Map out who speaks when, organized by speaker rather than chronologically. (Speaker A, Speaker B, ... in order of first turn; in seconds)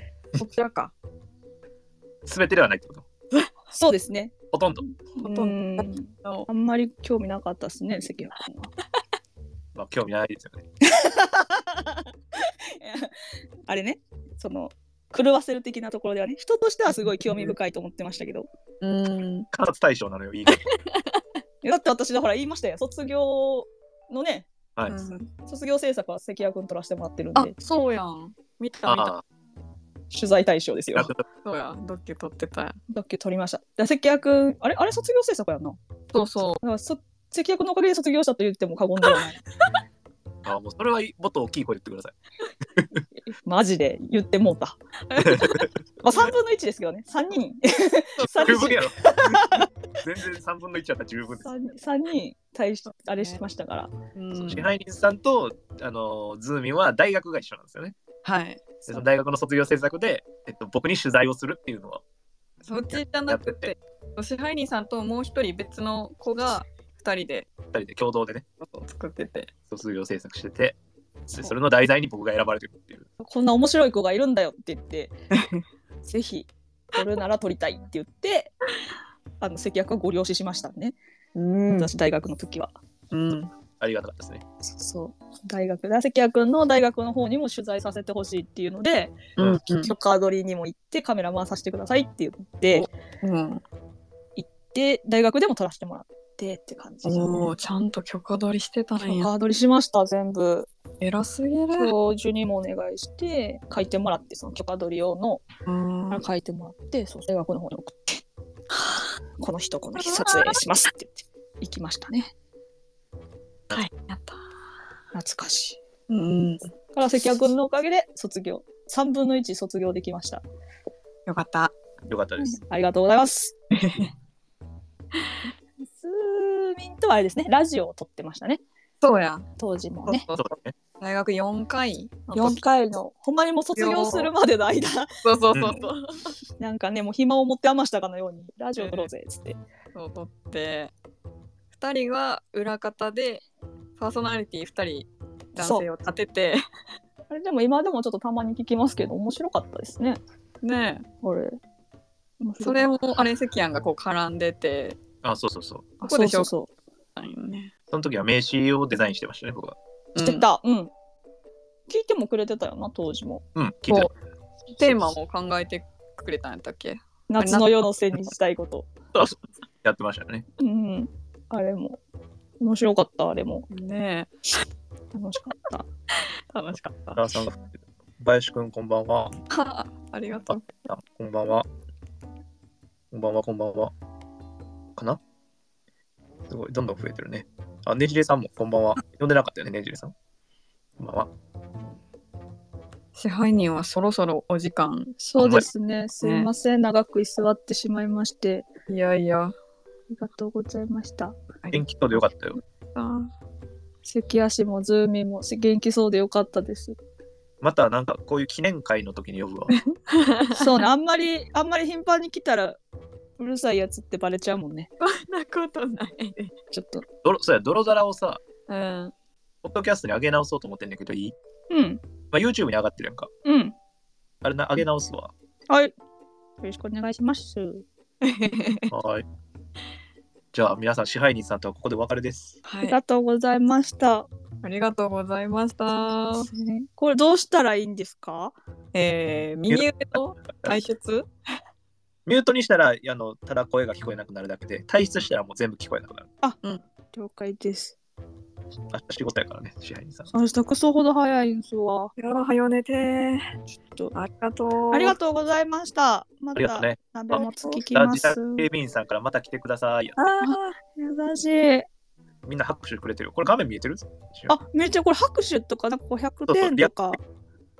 Speaker A: 0.4-0.9, 5.2-6.5, 17.0-17.5, 18.8-19.5, 20.5-21.2, 24.9-25.3, 27.3-29.1, 31.4-32.8, 36.1-36.6, 45.1-45.7, 48.2-48.6, 54.1-54.7, 58.2-59.0, 62.6-67.5, 68.6-69.5, 75.3-75.6, 81.3-81.9, 83.1-83.5, 89.4-89.9, 92.7-93.6, 97.0-99.3, 101.0-101.9, 105.7-106.2, 108.7-109.0, 110.0-110.6, 113.7-114.4, 116.1-116.7, 121.2-121.7, 123.7-124.1, 129.0-129.5, 130.1-130.4, 131.0-132.6, 133.8-134.3, 135.2-136.3, 138.8-139.1, 139.9-140.9, 141.7-143.4, 144.0-146.6, 150.6-151.1, 152.6-155.0, 156.0-156.5, 157.2-157.7, 160.1-160.4, 164.8-167.7, 173.7-174.3, 176.5-177.3, 179.5-180.7, 193.1-195.2, 196.2-196.5, 198.9-199.5, 202.9-203.3, 209.7-210.7, 215.0-216.5, 218.7-219.1, 228.2-228.9, 232.6-233.0, 234.6-236.5, 238.9-241.3, 252.2-253.4, 254.1-255.2, 257.3-257.8, 260.2-260.8
Speaker B: 2.2-3.0, 4.5-4.8, 9.7-10.6, 19.5-20.6, 28.9-29.2, 30.9-31.2, 40.4-42.1, 45.2-45.7, 48.4-51.5, 54.3-57.9, 58.9-62.0, 62.9-63.7, 67.7-68.4, 69.7-70.8, 71.3-73.1, 83.8-84.4, 122.0-122.6, 130.3-130.7, 135.5-135.8, 155.2-155.9, 157.9-159.8, 163.5-164.1, 164.8-165.1, 169.2-170.4, 177.2-177.7, 178.2-179.3, 180.5-181.7, 183.1-183.9, 184.9-185.2, 186.5-190.1, 191.0-191.3, 195.4-195.7, 201.7-202.6, 207.6-209.7, 217.2-218.4, 219.6-221.3, 222.3-223.3, 224.4-225.3, 228.9-229.2, 230.5-232.6, 240.4-240.8, 242.2-246.3, 248.9-250.3, 256.5-257.0, 257.9-260.2, 262.4-264.5, 266.5-266.9
Speaker C: 3.7-8.7, 10.8-13.1, 13.7-18.5, 21.6-24.5, 25.4-27.5, 30.1-31.1, 32.9-35.8, 36.6-39.4, 43.3-44.8, 46.0-49.7, 51.4-53.9, 73.2-75.2, 76.0-78.5, 79.4-81.0, 81.7-82.8, 84.6-92.9, 94.3-97.5, 99.0-100.7, 101.7-105.4, 106.1-108.2, 109.4-112.3, 115.1-115.8, 116.9-120.4, 122.4-123.5, 125.8-128.6, 129.6-130.2, 132.3-135.1, 136.6-139.6, 145.6-145.8, 147.3-150.2, 151.2-151.6, 152.4-153.0, 156.0-156.7, 160.2-160.9, 161.9-163.4, 167.3-169.0, 170.6-172.0, 172.6-173.7, 175.1-175.8, 195.2-198.7, 200.1-201.3, 204.0-206.9, 210.5-212.8, 213.4-214.9, 216.7-217.0, 221.7-222.0, 223.4-223.7, 226.6-227.8, 232.8-234.3, 236.4-238.6, 247.1-248.0, 250.3-252.1, 254.9-258.6, 260.4-261.9, 264.5-267.2